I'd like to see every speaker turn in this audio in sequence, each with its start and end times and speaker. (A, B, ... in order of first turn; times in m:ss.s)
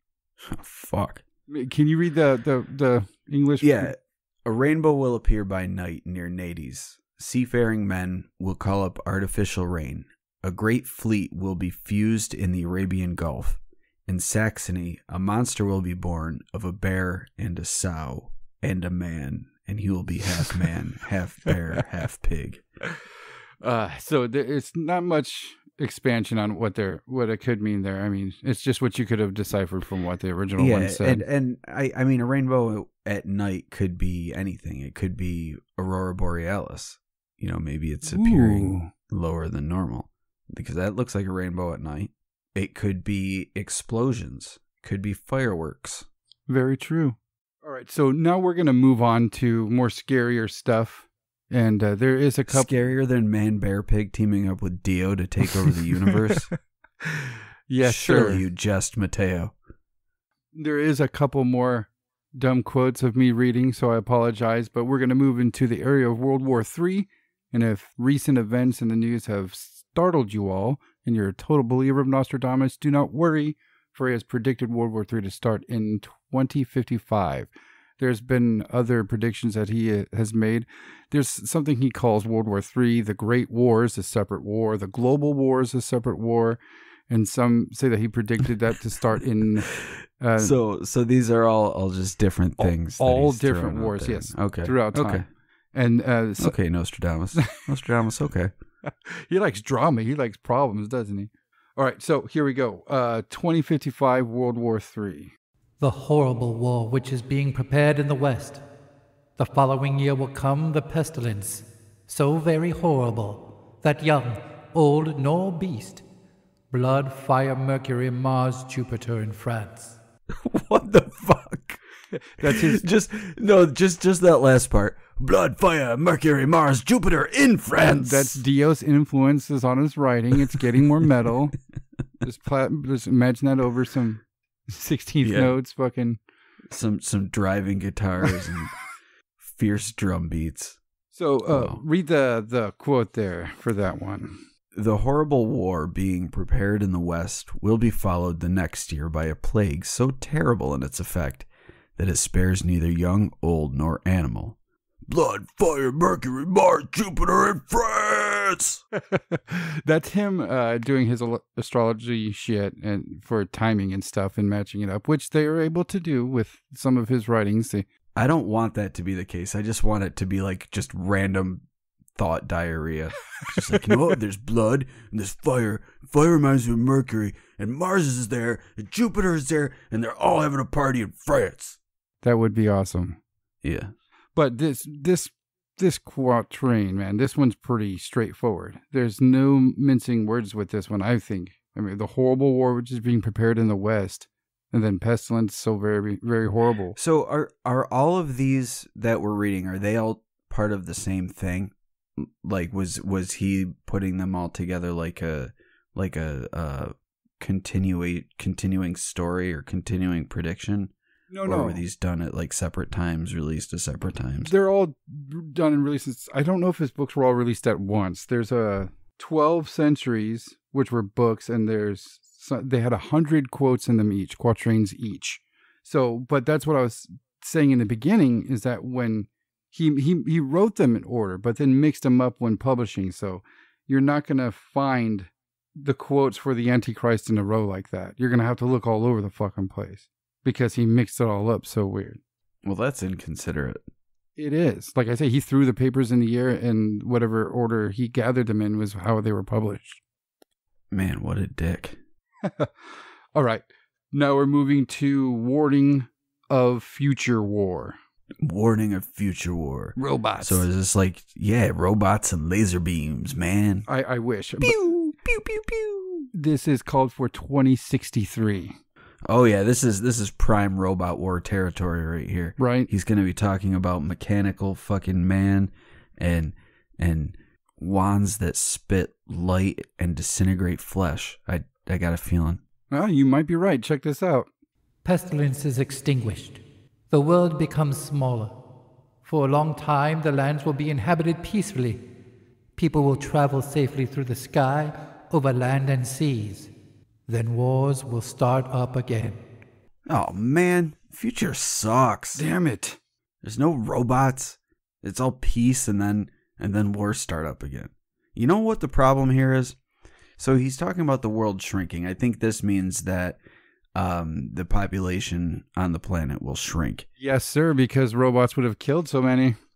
0:00.4-0:01.2 A
0:01.5-0:03.9 B
0:03.6-0:22.6 A
0:23.6-0:31.2 B
0:30.6-0:46.0 A
0:38.0-0:38.9 B
0:46.5-0:52.7 B
0:52.5-0:56.5 A
0:57.0-0:58.4 B
0:57.8-0:59.5 A
1:00.5-1:30.5 B
1:30.4-1:35.2 A
1:32.6-1:36.6 B
1:36.4-1:38.5 A
1:38.8-1:45.3 B
1:45.8-1:48.6 C
1:49.4-1:56.0 C
1:56.7-2:00.0 C
2:00.4-2:01.8 A
2:02.2-2:02.8 B
2:02.4-2:08.4 A
2:07.8-2:11.6 B
2:12.2-2:16.2 B
2:15.2-2:15.5 A
2:16.7-2:18.7 A
2:19.4-2:20.8 A
2:21.1-2:24.4 B
2:21.5-2:21.8 A
2:24.7-2:34.6 A
2:35.1-2:38.8 A
2:39.0-2:47.8 B
2:48.1-2:51.6 A
2:52.2-3:01.8 A
3:02.2-3:03.2 B
3:03.6-3:03.9 A
3:04.3-3:17.0 B
3:17.0-3:30.9 A
3:31.3-3:31.8 B
3:31.4-3:34.5 A
3:34.4-4:02.2 B
4:02.6-4:03.8 A
4:04.4-4:10.0 B
4:10.9-4:12.0 A
4:12.4-4:18.0 B
4:18.4-4:23.9 A
4:20.0-4:20.7 B
4:23.9-4:24.8 B
4:24.6-4:26.3 A
4:26.3-4:28.8 B
4:29.2-4:42.6 A
4:32.6-4:32.9 B
4:42.9-4:44.5 B
4:45.0-4:48.6 C
4:49.2-4:52.0 C
4:52.8-4:56.7 C
4:57.3-4:59.4 C
5:00.0-5:02.4 A
5:02.3-5:03.0 B
5:03.4-5:09.8 A
5:10.4-5:13.4 A
5:13.9-5:17.0 A
5:17.2-5:19.6 B